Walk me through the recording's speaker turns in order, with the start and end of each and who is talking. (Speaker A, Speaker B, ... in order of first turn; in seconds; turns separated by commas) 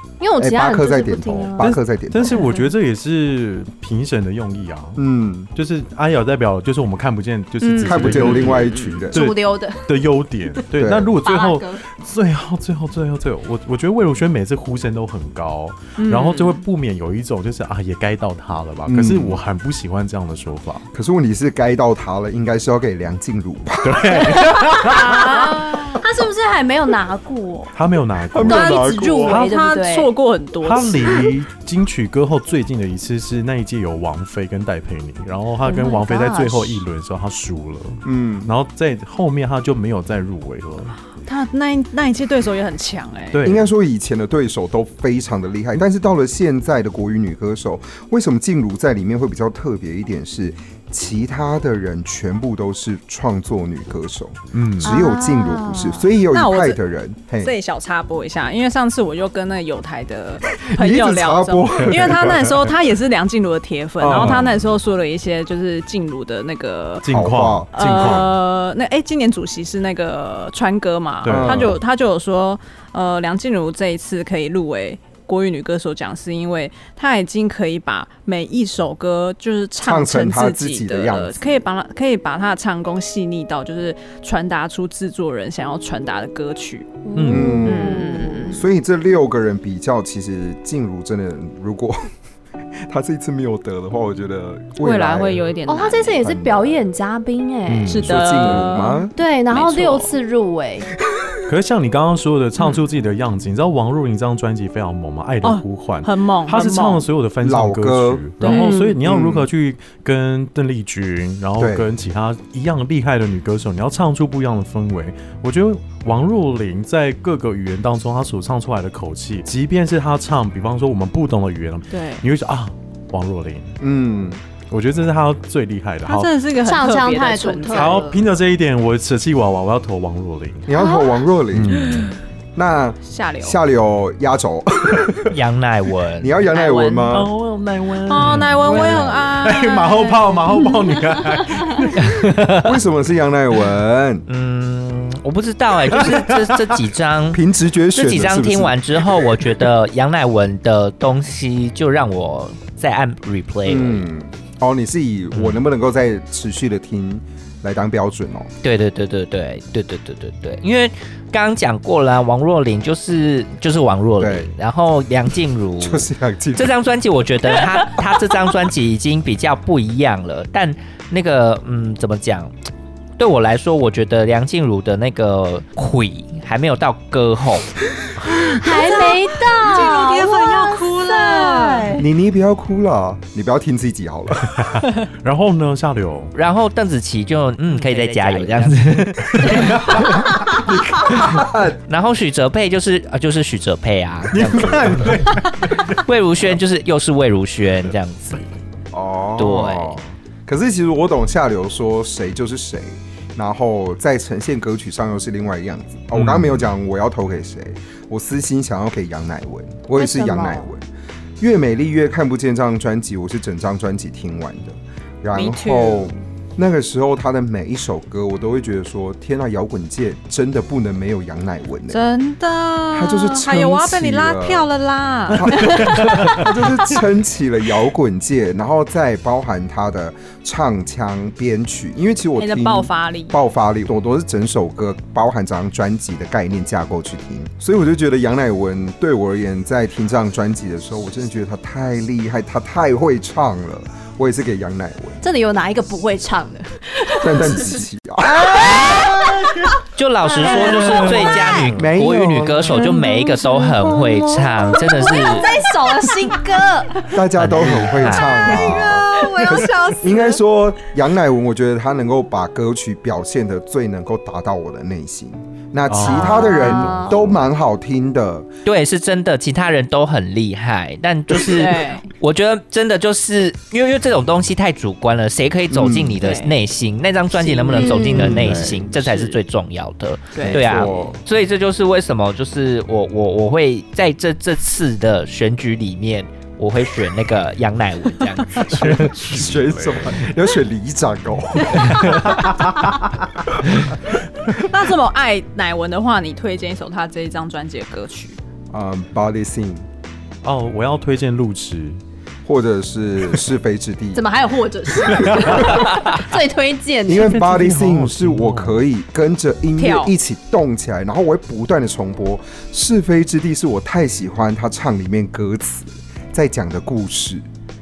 Speaker A: 0.2-1.8, Speaker B: 0.4-2.4, Speaker C: 2.1-5.0, Speaker B: 5.0-5.5, Speaker C: 5.5-20.9, Speaker D: 7.6-9.1, Speaker A: 7.7-8.1, Speaker B: 7.8-9.2, Speaker A: 9.1-9.9, Speaker B: 10.7-11.2, Speaker A: 11.2-11.8, Speaker D: 16.0-16.6, Speaker B: 18.9-19.4, Speaker B: 20.9-24.5, Speaker C: 23.8-25.2, Speaker A: 24.3-27.7, Speaker D: 25.0-26.0, Speaker C: 27.7-28.8, Speaker B: 28.3-29.4, Speaker A: 28.4-30.1, Speaker D: 28.9-31.1, Speaker C: 30.6-41.0, Speaker A: 35.6-36.8, Speaker B: 38.0-38.5, Speaker D: 41.1-43.4, Speaker C: 43.3-43.7, Speaker B: 43.4-57.5, Speaker C: 54.5-55.0, Speaker A: 54.8-56.1, Speaker D: 56.3-56.8, Speaker D: 57.4-67.0, Speaker B: 60.6-62.7, Speaker B: 64.0-64.5, Speaker C: 64.0-64.7, Speaker C: 67.0-68.3, Speaker B: 67.1-68.2, Speaker D: 67.8-87.1, Speaker C: 71.2-71.8, Speaker B: 71.3-71.8, Speaker B: 79.8-81.4, Speaker A: 87.0-88.6, Speaker C: 87.1-87.7, Speaker B: 87.3-92.1, Speaker D: 87.6-88.6, Speaker B: 92.8-95.5, Speaker D: 94.8-96.2, Speaker A: 95.7-98.0, Speaker B: 96.2-96.8, Speaker C: 97.7-98.7, Speaker D: 97.9-100.1, Speaker B: 98.0-99.1, Speaker A: 99.1-100.9, Speaker C: 101.4-123.8, Speaker D: 105.4-107.1, Speaker B: 107.4-108.2, Speaker D: 108.4-108.7, Speaker A: 108.5-109.0, Speaker B: 109.0-109.5, Speaker B: 111.6-111.9, Speaker D: 121.9-122.2, Speaker B: 123.8-124.4, Speaker C: 124.7-126.3, Speaker D: 126.0-128.1, Speaker A: 126.6-128.2, Speaker C: 127.7-130.7, Speaker B: 130.7-135.3, Speaker A: 130.7-131.2, Speaker C: 131.5-132.1, Speaker D: 133.0-133.6, Speaker E: 135.3-136.5, Speaker B: 136.2-137.3, Speaker A: 136.5-137.1, Speaker C: 137.1-142.5, Speaker D: 138.1-140.7, Speaker E: 138.6-139.1, Speaker E: 142.0-142.7, Speaker B: 142.5-144.2, Speaker E: 144.3-147.4, Speaker C: 145.9-146.7, Speaker B: 147.3-149.0, Speaker E: 147.9-154.0, Speaker B: 153.7-158.5, Speaker E: 155.3-155.6, Speaker E: 158.6-172.5, Speaker B: 164.2-164.5, Speaker B: 165.8-166.7, Speaker E: 173.2-177.7, Speaker D: 178.5-182.0, Speaker A: 178.5-182.1, Speaker B: 182.0-184.5, Speaker C: 184.4-186.3, Speaker E: 186.3-190.2, Speaker D: 187.9-188.7, Speaker C: 189.2-190.4, Speaker B: 189.9-191.8, Speaker E: 191.1-198.4, Speaker C: 194.3-196.0, Speaker B: 198.9-210.8, Speaker E: 199.4-200.0, Speaker C: 206.1-206.7, Speaker A: 209.9-210.7, Speaker B: 211.4-222.0, Speaker D: 215.3-216.1, Speaker D: 221.9-225.9, Speaker B: 222.9-224.7, Speaker B: 225.3-245.2, Speaker C: 225.4-226.8, Speaker D: 232.4-233.4, Speaker A: 245.2-251.7, Speaker B: 247.2-248.9, Speaker C: 248.3-251.8, Speaker E: 249.9-255.5, Speaker B: 251.7-252.9, Speaker A: 252.7-257.2, Speaker D: 255.2-255.5, Speaker B: 257.1-268.5, Speaker E: 257.4-258.6, Speaker D: 258.4-260.1, Speaker A: 258.4-260.3, Speaker C: 265.9-267.4, Speaker A: 266.0-267.1, Speaker E: 268.6-289.1, Speaker D: 271.4-272.1, Speaker B: 275.7-276.2, Speaker D: 276.2-276.6, Speaker D: 277.3-279.4, Speaker A: 277.7-278.6, Speaker B: 278.2-278.7, Speaker D: 280.3-280.8, Speaker B: 280.4-281.2, Speaker C: 288.7-290.2, Speaker B: 288.7-292.4, Speaker C: 292.0-293.0, Speaker D: 294.6-298.4, Speaker B: 298.7-299.8, Speaker C: 300.4-302.0, Speaker B: 302.4-304.2, Speaker A: 304.1-307.4, Speaker B: 304.9-306.1, Speaker C: 305.1-305.7, Speaker B: 307.1-317.5, Speaker C: 307.1-308.8, Speaker D: 309.8-310.1